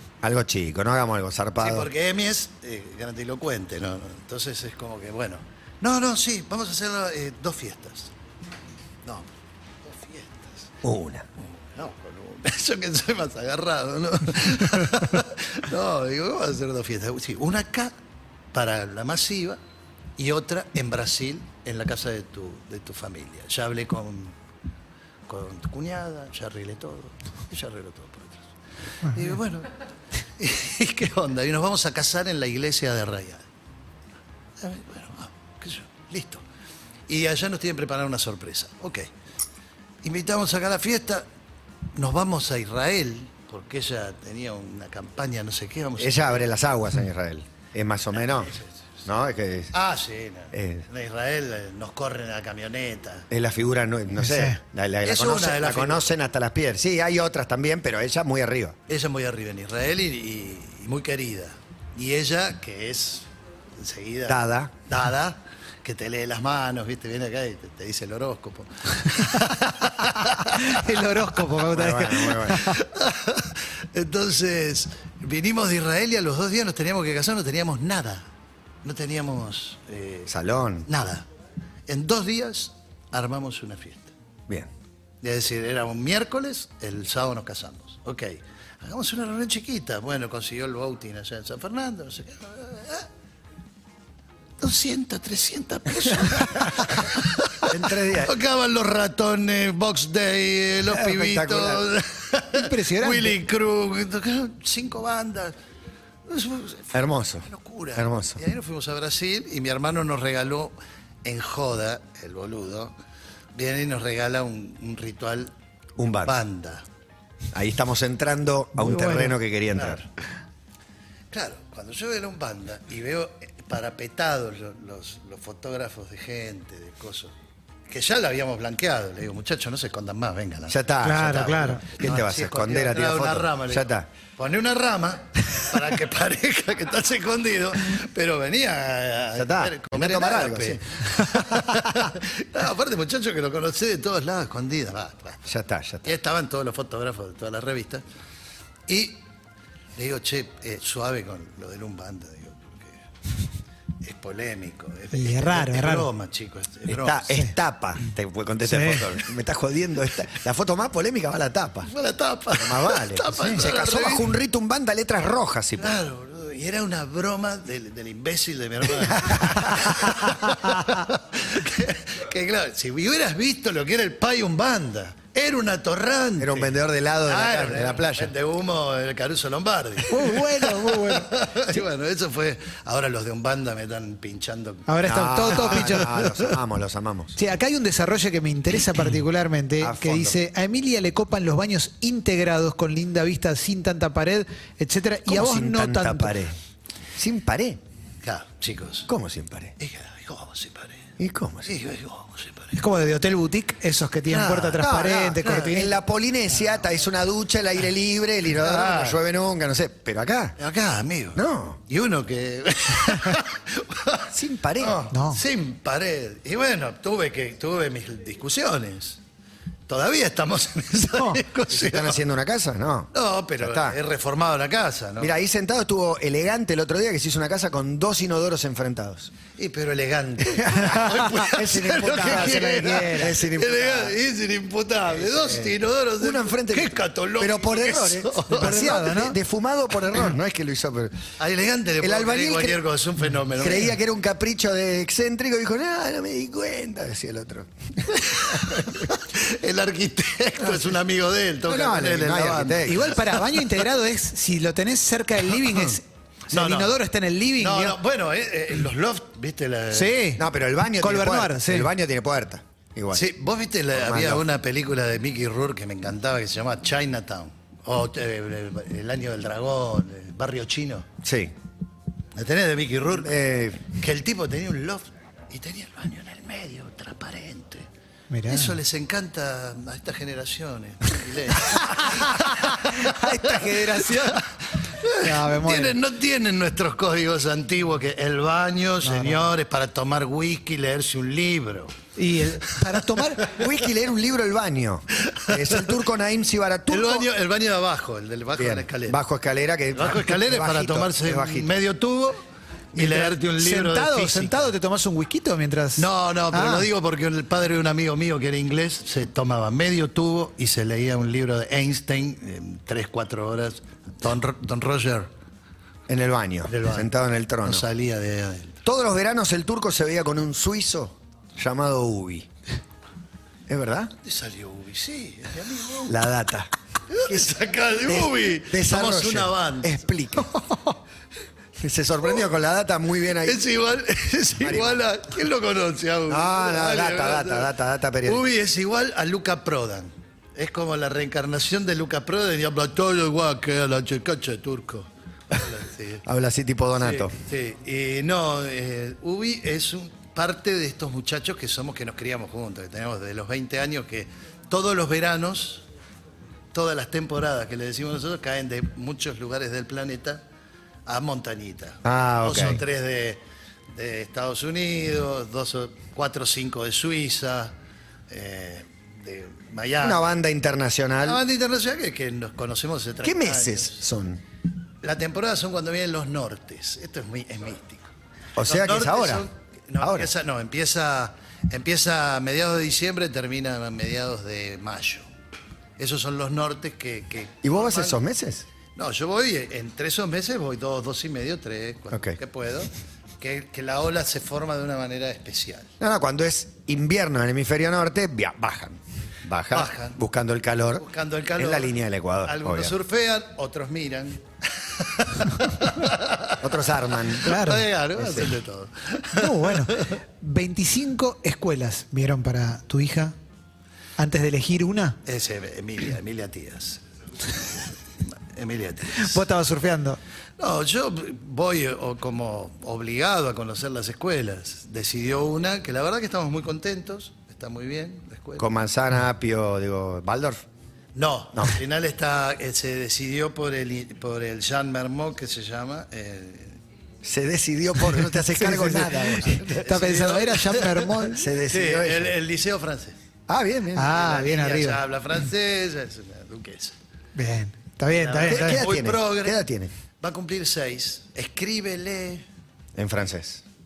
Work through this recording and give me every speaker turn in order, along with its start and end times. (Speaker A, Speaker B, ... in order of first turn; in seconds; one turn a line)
Speaker A: 0.2-1.9
Speaker B: 1.6-8.1
Speaker B: 9.1-9.3
Speaker B: 9.8-10.7
Speaker A: 10.8-11.3
Speaker B: 11.4-17.9
Speaker B: 18.5-19.6
Speaker B: 20.2-24.4
Speaker B: 25.3-28.5
Speaker B: 29.1-29.7
Speaker B: 30.4-33.5
Speaker B: 34.6-36.4
Speaker B: 37.1-39.1
Speaker B: 40.0-41.2
Speaker B: 42.0-46.5
Speaker A: 46.0-48.5
Speaker B: 48.2-48.7
Speaker A: 49.1-49.7
Speaker B: 49.7-53.3
Speaker A: 50.5-50.9
Speaker A: 53.3-58.8
Speaker C: 54.2-54.6
Speaker B: 55.0-56.1
Speaker B: 58.9-70.8
Speaker A: 64.3-64.7
Speaker C: 70.2-72.8
Speaker A: 71.7-72.6
Speaker B: 72.6-78.3
Speaker B: 78.8-80.3
Speaker A: 80.3-80.9
Speaker B: 80.9-81.3
Speaker B: 81.9-84.1
Speaker B: 85.2-93.1
Speaker B: 94.6-105.5
Speaker A: 97.7-98.3
Speaker A: 100.8-101.8
Speaker C: 102.5-103.3
Speaker B: 106.3-112.9
Speaker A: 106.9-108.4
Speaker B: 113.5-115.5
Speaker A: 116.0-116.4
Speaker B: 116.2-116.8
Speaker A: 117.5-120.0
Speaker C: 118.8-119.3
Speaker B: 119.8-120.0
Speaker B: 121.3-127.3
Speaker B: 127.9-145.4
Speaker A: 130.7-134.1
Speaker C: 131.0-131.9
Speaker A: 139.4-140.8
Speaker A: 141.5-142.0
Speaker A: 145.5-146.1
Speaker B: 146.1-148.0
Speaker B: 148.9-149.2
Speaker B: 150.0-153.0
Speaker B: 154.0-157.4
Speaker C: 155.1-156.1
Speaker A: 156.9-161.9
Speaker C: 158.7-159.1
Speaker B: 161.9-164.3
Speaker A: 162.6-166.0
Speaker C: 163.4-163.6
Speaker B: 165.8-184.9
Speaker A: 169.0-170.3
Speaker A: 176.4-178.3
Speaker C: 180.1-181.3
Speaker C: 184.9-186.2
Speaker A: 185.0-187.4
Speaker B: 185.5-186.6
Speaker C: 187.4-196.4
Speaker A: 189.8-190.4
Speaker A: 195.3-196.6
Speaker A: 197.2-197.8
Speaker B: 198.2-199.1
Speaker A: 199.1-199.7
Speaker B: 199.8-201.1
Speaker A: 201.2-201.7
Speaker B: 201.7-202.8
Speaker C: 202.8-206.0
Speaker B: 204.3-204.9
Speaker A: 204.8-210.6
Speaker B: 205.4-205.7
Speaker B: 208.5-209.2
Speaker B: 210.6-219.2
Speaker A: 211.3-211.8
Speaker A: 214.3-215.0
Speaker C: 215.1-215.4
Speaker B: 219.9-222.2
Speaker C: 221.0-221.4
Speaker A: 221.7-224.0
Speaker B: 223.1-225.3
Speaker A: 225.2-229.3
Speaker B: 229.6-239.0
Speaker A: 230.4-234.2
Speaker C: 230.9-231.3
Speaker C: 232.0-233.3
Speaker A: 235.2-241.3
Speaker C: 238.5-239.4
Speaker B: 241.4-243.9
Speaker A: 242.0-242.8
Speaker A: 243.6-249.1
Speaker B: 248.1-253.6
Speaker A: 251.7-253.1
Speaker C: 252.8-258.0
Speaker B: 255.7-255.9
Speaker B: 256.5-257.0
Speaker B: 257.6-260.3
Speaker C: 259.9-260.4
Speaker A: 260.4-263.2
Speaker C: 261.0-261.9
Speaker B: 263.1-271.1
Speaker A: 263.9-264.4
Speaker A: 271.2-271.5
Speaker B: 272.4-277.9
Speaker A: 273.2-273.9
Speaker C: 278.3-278.8
Speaker B: 278.5-292.0
Speaker C: 281.8-284.4
Speaker C: 285.2-286.0
Speaker C: 289.0-289.5
Speaker C: 292.2-293.5
Speaker A: 293.4-297.3
Speaker B: 295.3-295.9
Speaker B: 296.9-299.2
Speaker A: 298.6-301.7
Speaker B: 299.9-302.4
Speaker B: 302.9-304.7
Speaker C: 303.0-306.9
Speaker B: 306.0-315.3
Speaker A: 316.1-317.9
Speaker B: 316.7-317.1
Speaker B: 317.6-318.8
Speaker A: 318.9-322.5
Speaker A: 323.7-324.1
Speaker B: 324.2-326.2
Speaker A: 326.1-326.7
Speaker B: 327.1-330.0
Speaker A: 328.1-330.5
Speaker A: 331.8-333.6
Speaker B: 333.4-337.7
Speaker A: 334.6-335.0
Speaker A: 336.3-338.5
Speaker B: 338.2-346.2
Speaker A: 346.2-347.3
Speaker B: 347.0-355.9
Speaker B: 356.7-360.4
Speaker B: 361.1-363.4
Speaker A: 362.1-362.8
Speaker B: 363.9-367.8
Speaker B: 368.3-370.3
Speaker A: 370.0-371.4
Speaker B: 371.2-374.0
Speaker A: 373.2-374.4
Speaker B: 375.0-378.1
Speaker A: 378.6-379.4
Speaker B: 378.6-385.3
Speaker A: 380.0-380.3
Speaker B: 386.0-388.2
Speaker A: 387.6-388.7
Speaker B: 389.0-395.9
Speaker A: 396.0-401.1
Speaker B: 399.7-400.2
Speaker B: 401.0-410.2
Speaker A: 401.6-402.9
Speaker A: 406.6-407.6
Speaker C: 407.4-407.9
Speaker A: 408.2-408.6
Speaker C: 409.3-413.4
Speaker C: 414.2-415.2
Speaker B: 415.3-419.4
Speaker C: 419.2-420.2
Speaker B: 420.6-428.7
Speaker A: 428.6-430.6
Speaker B: 431.1-436.8
Speaker A: 437.2-439.8
Speaker C: 438.2-441.4
Speaker B: 439.4-443.2
Speaker A: 441.3-442.4
Speaker A: 443.5-444.2
Speaker C: 443.9-445.0
Speaker B: 444.1-447.0
Speaker C: 447.4-448.9
Speaker B: 448.1-449.6
Speaker A: 448.4-449.9
Speaker B: 450.2-452.4
Speaker A: 453.0-453.6